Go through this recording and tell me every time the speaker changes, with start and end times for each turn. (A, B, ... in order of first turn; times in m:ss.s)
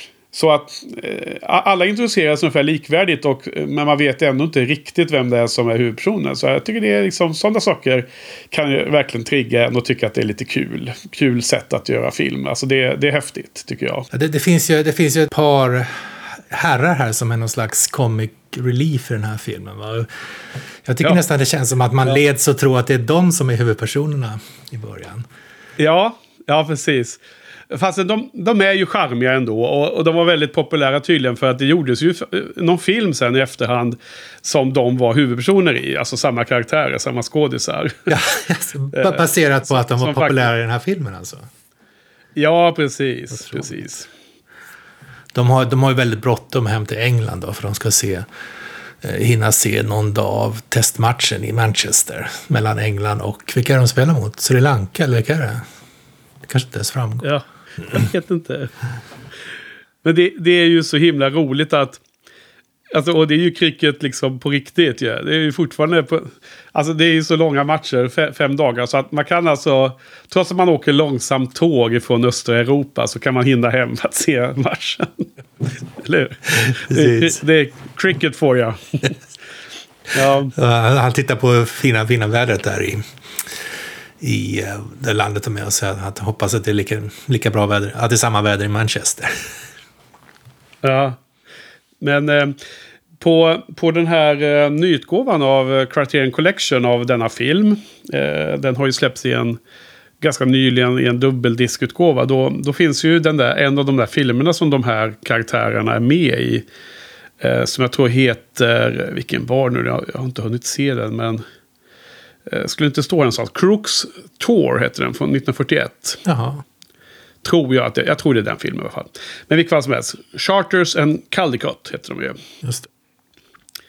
0:00.3-0:14.1 A
0:14.1-0:20.1 B
0:20.8-0:25.3 B
0:25.8-0:38.1 A
0:38.1-0:41.5 B
0:38.9-0:40.5 A
0:42.4-0:44.1 A
0:43.3-0:43.8 B
0:45.3-0:48.2 B
0:49.0-0:55.6 B
0:56.5-0:57.3 B
0:57.2-0:58.7 A
1:00.0-1:02.0 A
1:02.9-1:15.2 A
1:16.0-1:19.1 A
1:16.6-1:17.4 B
1:20.1-1:20.5 A
1:20.5-1:23.0 B
1:24.2-1:29.3 B
1:30.8-1:31.2 A
1:32.0-1:32.6 A
1:33.2-1:39.6 A
1:40.2-1:46.6 A
1:47.4-1:51.4 A
1:52.5-1:56.2 A
1:56.2-1:56.6 B
1:57.4-2:02.4 A